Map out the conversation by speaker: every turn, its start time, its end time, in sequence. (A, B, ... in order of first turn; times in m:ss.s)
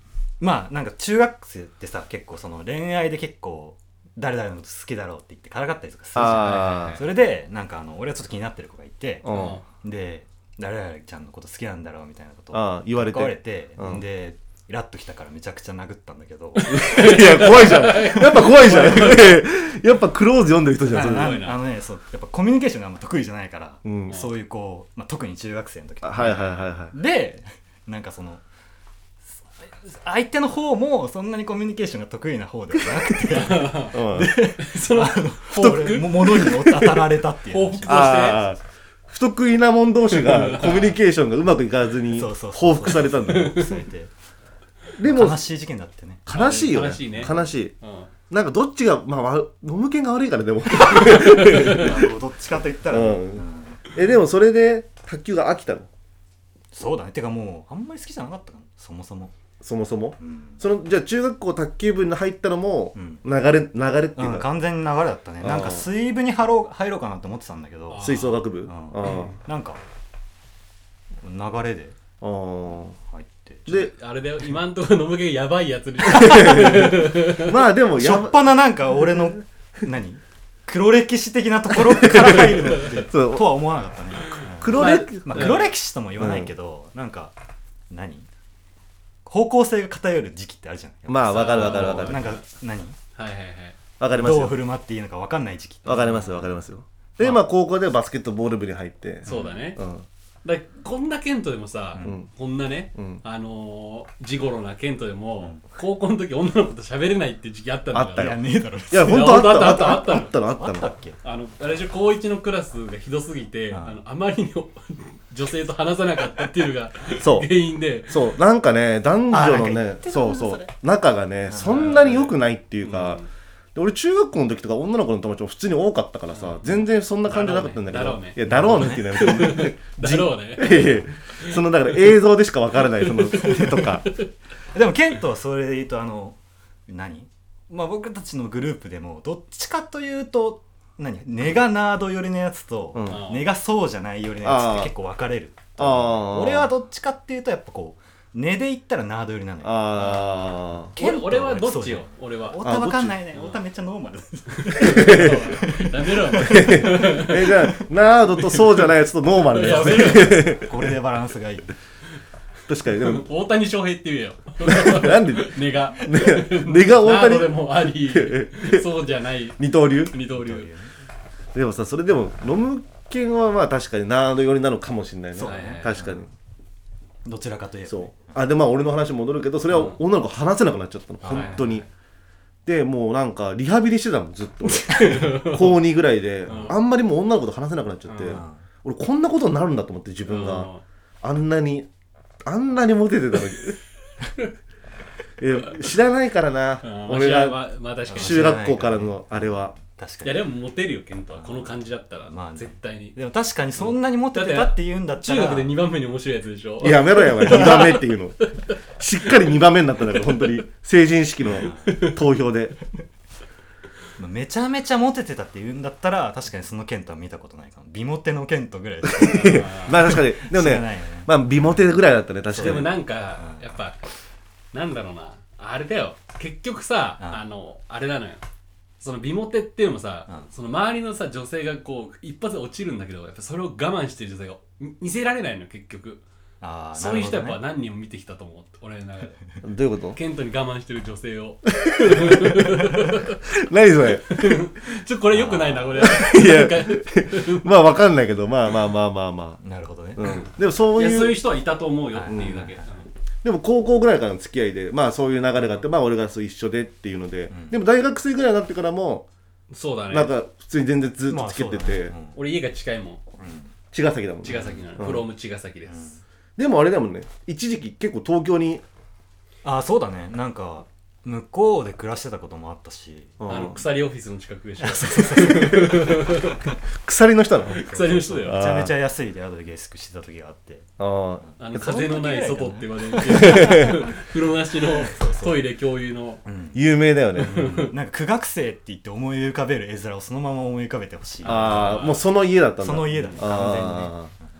0:00.4-0:17.5 A
0:06.1-0:07.0 B
0:06.2-0:07.0 C
0:09.2-0:09.6 B
0:09.3-0:09.6 C
0:12.5-0:14.0 B
0:16.6-0:19.4 C
0:16.7-0:21.4 B
0:20.8-0:28.4 A
0:20.9-0:21.5 C
0:23.8-0:24.2 B
0:26.0-0:26.9 B
0:29.6-0:38.2 A
0:33.3-0:36.9 C
0:33.9-0:34.3 B
0:37.5-0:38.4 C
0:37.8-0:43.6 B
0:40.1-0:41.0 C
0:42.1-0:44.1 A
0:43.2-0:43.8 C
0:45.0-0:45.4 B
0:45.0-0:46.2 A
0:46.2-0:47.7 B
0:46.3-0:48.1 C
0:47.1-0:47.3 A
0:48.3-0:52.1 B
0:50.8-0:51.9 C
0:51.4-0:53.8 A
0:52.9-0:55.9 B
0:56.7-0:59.3 A
0:59.6-1:04.5 B
1:00.2-1:00.6 A
1:02.9-1:03.2 A
1:04.2-1:08.1 A
1:05.4-1:05.9 B
1:07.9-1:08.4 C
1:08.0-1:09.3 B
1:08.6-1:09.8 A
1:11.2-1:12.0 A
1:12.2-1:13.0 B
1:12.7-1:13.7 A
1:13.7-1:17.6 C
1:16.0-1:18.5 B
1:17.9-1:27.3 A
1:22.0-1:23.6 B
1:24.3-1:25.7 C
1:24.6-1:26.5 B
1:27.9-1:28.3 A
1:29.2-1:33.0 A
1:31.0-1:32.4 B
1:31.3-1:32.4 C
1:33.1-1:33.8 C
1:34.0-1:34.6 B
1:34.2-1:36.6 A
1:35.8-1:40.0 B
1:39.2-1:39.6 A
1:39.3-1:39.8 C
1:40.4-1:48.4 C
1:41.9-1:42.2 A
1:47.9-1:48.4 B
1:48.2-1:49.8 A
1:48.9-1:50.9 B
1:49.0-1:50.3 C
1:50.4-1:51.2 A
1:51.2-1:58.3 C
1:53.7-1:54.0 A
1:57.2-1:57.5 B
1:58.1-2:03.2 B
1:59.3-2:00.7 A
2:01.5-2:02.0 A
2:01.6-2:03.2 C
2:03.7-2:14.0 B
2:06.3-2:12.1 C
2:08.4-2:09.2 A
2:13.0-2:14.2 C
2:13.3-2:14.0 A
2:14.7-2:30.2 A
2:22.9-2:23.2 B
2:23.1-2:23.4 C
2:24.4-2:24.9 B
2:25.8-2:26.7 B
2:29.6-2:30.9 B
2:30.0-2:32.6 C
2:30.8-2:37.8 A
2:32.6-2:33.2 B
2:33.3-2:33.6 C
2:34.6-2:37.6 C
2:34.8-2:35.5 B
2:36.4-2:41.0 B
2:38.5-2:38.9 C
2:39.5-2:40.5 C
2:39.6-2:41.7 A
2:42.7-2:43.3 B
2:42.9-2:49.6 C
2:44.6-2:48.8 B
2:49.6-2:50.1 B
2:50.1-2:50.7 C
2:50.3-2:50.9 A
2:51.5-2:56.3 B
2:55.4-2:56.2 A
2:55.4-2:56.0 C
2:57.2-2:58.3 A
2:57.9-3:01.8 B
2:59.7-3:00.0 C
3:01.2-3:01.6 A
3:01.2-3:01.8 C
3:02.6-3:10.7 B
3:04.8-3:05.8 C
3:04.9-3:05.3 A
3:06.5-3:06.8 C
3:06.5-3:06.7 A
3:08.1-3:08.4 C
3:08.2-3:08.6 A
3:10.3-3:10.8 C
3:11.2-3:11.9 B
3:12.4-3:13.8 B
3:15.4-3:17.6 B
3:16.8-3:18.6 C
3:18.1-3:20.5 A
3:18.1-3:19.7 B
3:20.2-3:23.2 C
3:21.3-3:21.7 A
3:22.2-3:25.7 A
3:23.8-3:28.1 C
3:26.8-3:28.4 B
3:29.0-3:32.8 B
3:30.1-3:30.6 C
3:31.5-3:32.0 A
3:31.8-3:32.2 C
3:34.2-3:41.8 A
3:39.1-3:43.0 B
3:39.2-3:40.0 C
3:42.5-3:43.7 A
3:42.6-3:44.0 C
3:44.7-3:48.4 C
3:49.0-3:56.2 C
3:56.6-3:57.6 A
3:56.9-3:59.6 C
3:59.6-4:00.2 B
4:00.1-4:03.4 C
4:01.9-4:04.7 B
4:04.2-4:07.8 C
4:05.3-4:06.1 A
4:06.0-4:09.6 B
4:09.6-4:10.3 A
4:10.1-4:11.4 B
4:10.2-4:13.1 C
4:12.1-4:12.8 A
4:12.3-4:12.6 B
4:13.4-4:19.2 B
4:17.5-4:17.8 A
4:19.7-4:20.3 C
4:20.1-4:22.1 B
4:21.3-4:22.4 A
4:22.3-4:23.2 C
4:23.4-4:23.7 A
4:23.9-4:25.2 B
4:24.4-4:26.2 C
4:24.4-4:25.1 A
4:25.8-4:26.2 A
4:26.6-4:28.8 B
4:29.6-4:33.4 A
4:33.4-4:33.8 B
4:33.5-4:36.6 C
4:34.8-4:36.5 A
4:35.5-4:35.9 B
4:37.0-4:37.8 B
4:37.7-4:40.9 A
4:37.7-4:38.6 C
4:38.4-4:38.9 B
4:41.0-4:41.4 B
4:41.5-4:44.2 A
4:41.6-4:46.4 C
4:43.3-4:44.0 B
4:44.8-4:45.6 A
4:46.4-4:46.8 A
4:46.7-4:47.7 B
4:47.4-4:52.1 A
4:47.4-4:47.9 C
4:51.4-4:52.2 C
4:51.4-4:54.3 B
4:52.8-4:54.2 A